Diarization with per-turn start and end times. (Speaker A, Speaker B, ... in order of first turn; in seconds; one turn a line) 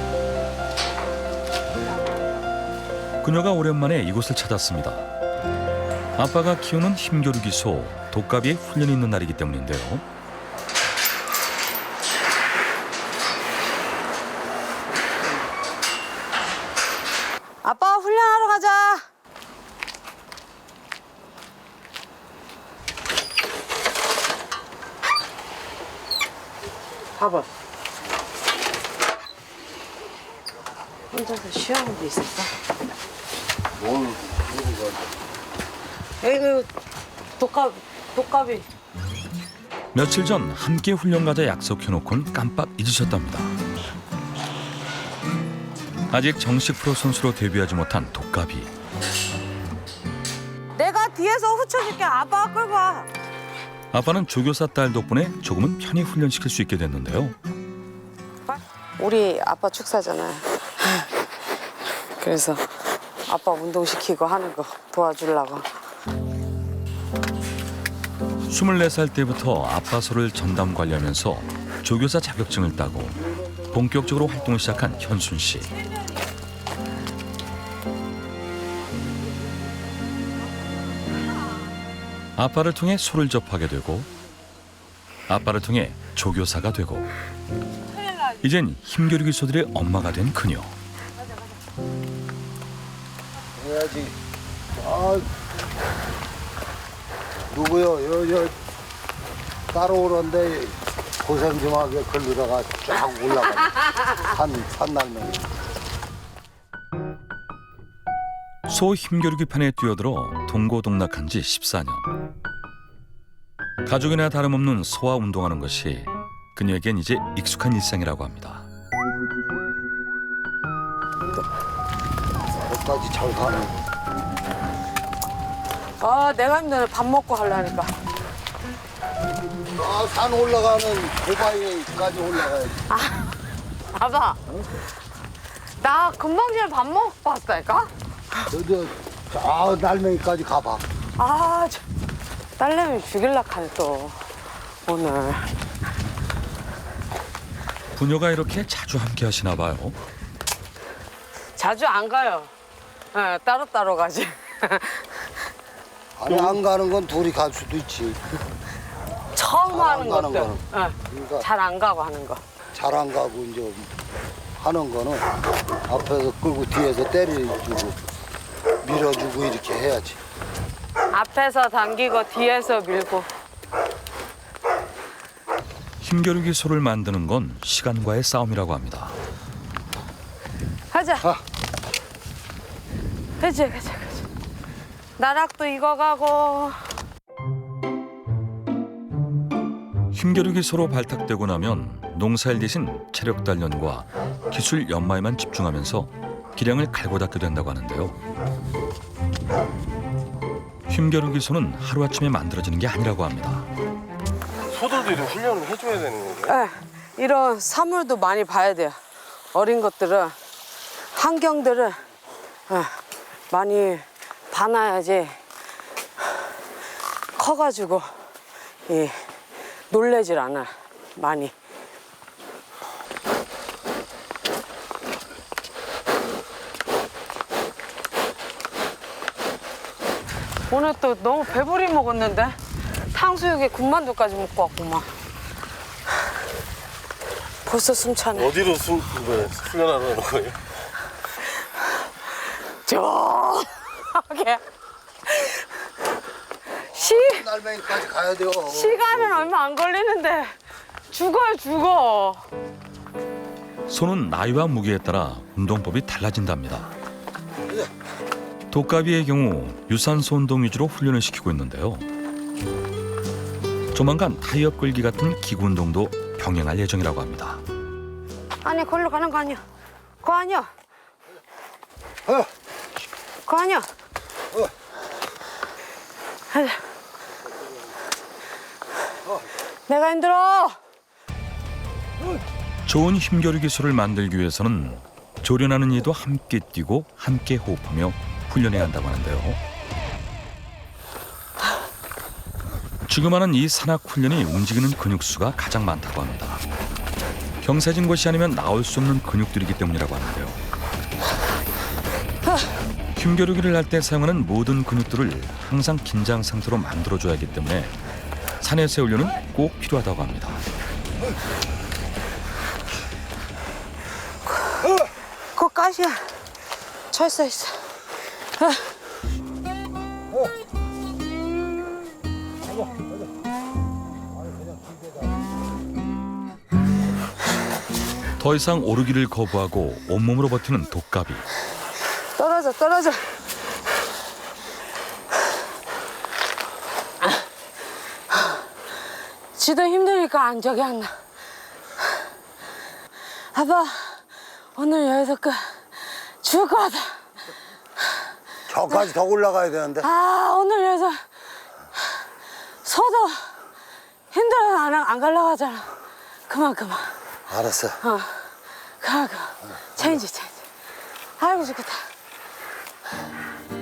Speaker A: 3.2-5.1
Speaker A: 6.2-10.0
Speaker B: 17.6-19.0
Speaker B: 27.2-27.4
Speaker B: 31.1-32.5
Speaker C: 34.0-34.9
Speaker B: 36.2-36.7
Speaker B: 37.4-38.6
Speaker A: 39.9-43.5
Speaker A: 46.1-48.7
Speaker B: 50.8-53.1
Speaker A: 53.9-57.3
Speaker B: 59.0-61.1
Speaker B: 62.2-62.7
Speaker B: 63.3-65.7
Speaker A: 68.5-75.7
Speaker C: 73.5-74.9
Speaker A: 82.3-84.1
Speaker A: 85.3-87.1
Speaker A: 88.2-90.7
Speaker C: 93.6-94.2
Speaker C: 94.8-95.2
Speaker C: 97.5-98.5
Speaker C: 99.7-105.5
Speaker A: 108.7-112.1
Speaker A: 113.8-118.7
Speaker C: 122.6-123.8
Speaker B: 126.0-127.9
Speaker C: 129.7-132.8
Speaker B: 132.9-133.3
Speaker B: 133.9-134.4
Speaker B: 135.8-137.9
Speaker C: 138.5-140.8
Speaker B: 141.2-141.8
Speaker B: 142.6-144.2
Speaker B: 144.8-145.5
Speaker A: 147.9-150.0
Speaker B: 151.6-152.5
Speaker B: 153.1-155.3
Speaker C: 156.2-158.2
Speaker B: 159.3-162.4
Speaker C: 159.7-161.4
Speaker C: 162.7-163.9
Speaker C: 164.6-165.3
Speaker C: 165.9-168.0
Speaker C: 168.8-170.2
Speaker B: 171.1-173.3
Speaker A: 176.0-179.2
Speaker B: 180.9-181.3
Speaker B: 183.4-184.2
Speaker B: 185.2-186.9
Speaker A: 190.1-198.2
Speaker A: 200.9-203.7
Speaker D: 204.7-206.5
Speaker B: 206.4-209.0
Speaker B: 209.5-210.3
Speaker B: 211.1-212.0
Speaker B: 212.7-213.0
Speaker B: 213.5-215.4
Speaker B: 217.3-218.1
Speaker B: 218.9-219.2
Speaker B: 219.9-221.5
Speaker B: 230.7-235.1
Speaker B: 237.6-238.7
Speaker D: 238.6-240.6
Speaker B: 242.7-244.6
Speaker B: 245.3-245.7
Speaker B: 246.9-247.4
Speaker C: 247.0-249.2
Speaker B: 248.6-250.6
Speaker B: 251.1-252.4
Speaker A: 253.9-256.9
Speaker A: 258.7-262.1
Speaker A: 263.9-267.6
Speaker B: 268.6-269.6
Speaker B: 270.2-270.7
Speaker B: 273.4-273.9
Speaker B: 276.5-276.8
Speaker B: 279.9-280.8
Speaker A: 282.9-289.6
Speaker A: 293.1-296.6
Speaker A: 297.6-300.6
Speaker A: 303.1-307.9
Speaker A: 308.6-310.6
Speaker B: 315.5-316.3
Speaker B: 317.1-318.0
Speaker B: 318.6-318.8
Speaker A: 328.4-331.4
Speaker B: 332.4-333.2
Speaker B: 339.5-341.1
Speaker B: 343.5-344.2
Speaker B: 344.8-347.2
Speaker C: 348.7-350.1
Speaker B: 350.0-351.2
Speaker B: 352.8-353.5
Speaker B: 354.3-355.9
Speaker B: 356.5-357.1
Speaker C: 357.5-358.0
Speaker B: 358.0-358.4
Speaker B: 359.0-360.6
Speaker B: 361.4-362.1